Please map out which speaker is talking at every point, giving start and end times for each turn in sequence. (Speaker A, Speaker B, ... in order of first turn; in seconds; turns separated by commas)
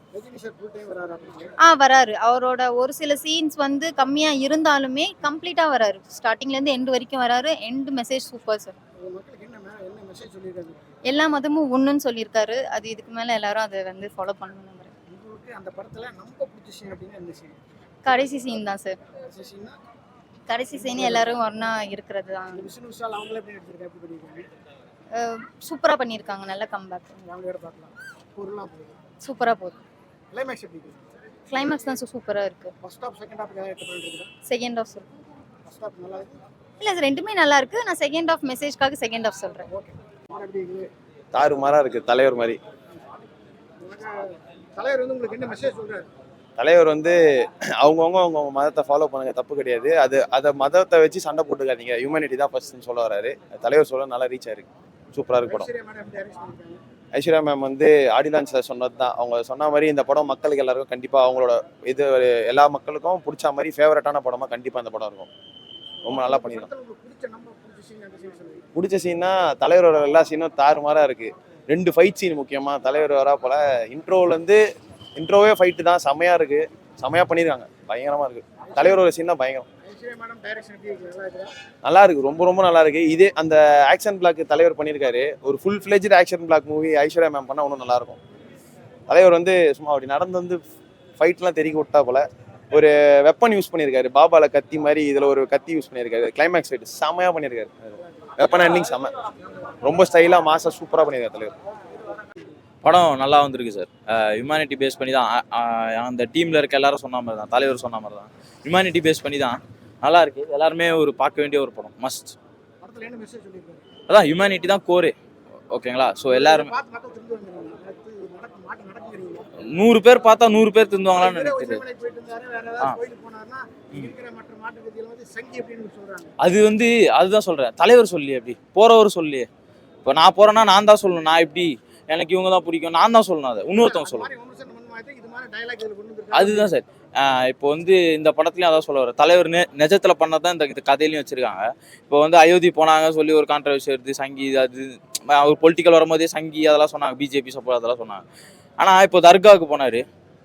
Speaker A: 0.1-1.5, Speaker B: 1.6-8.8, Speaker A: 9.0-10.9, Speaker B: 11.1-14.9, Speaker A: 15.1-17.6, Speaker B: 18.0-19.0, Speaker A: 19.3-19.8, Speaker B: 20.5-22.7, Speaker A: 20.9-21.3, Speaker A: 22.5-24.4, Speaker B: 25.2-27.1, Speaker A: 27.2-29.0, Speaker B: 29.2-29.8, Speaker A: 30.3-31.0, Speaker B: 31.5-32.7, Speaker A: 32.8-34.3, Speaker B: 34.5-35.1, Speaker A: 35.7-36.4, Speaker B: 36.8-39.7, Speaker A: 39.7-40.9, Speaker C: 41.3-42.6, Speaker A: 43.8-44.2, Speaker A: 44.8-46.1, Speaker C: 46.6-47.2, Speaker C: 47.8-55.7, Speaker A: 55.5-56.8, Speaker C: 57.1-65.3, Speaker C: 66.0-66.7, Speaker A: 66.1-68.6, Speaker C: 68.8-74.6, Speaker C: 75.2-79.7, Speaker A: 79.9-81.5, Speaker C: 81.8-88.2, Speaker C: 89.1-90.6, Speaker C: 91.2-99.1, Speaker C: 99.8-101.5, Speaker D: 102.8-112.3, Speaker A: 112.8-113.8, Speaker D: 114.1-115.1, Speaker D: 115.7-116.7, Speaker A: 116.3-119.4, Speaker D: 119.6-121.8, Speaker A: 121.2-126.3, Speaker D: 126.4-129.5, Speaker D: 130.0-134.3, Speaker A: 133.8-136.7, Speaker D: 136.3-148.2, Speaker D: 148.8-150.0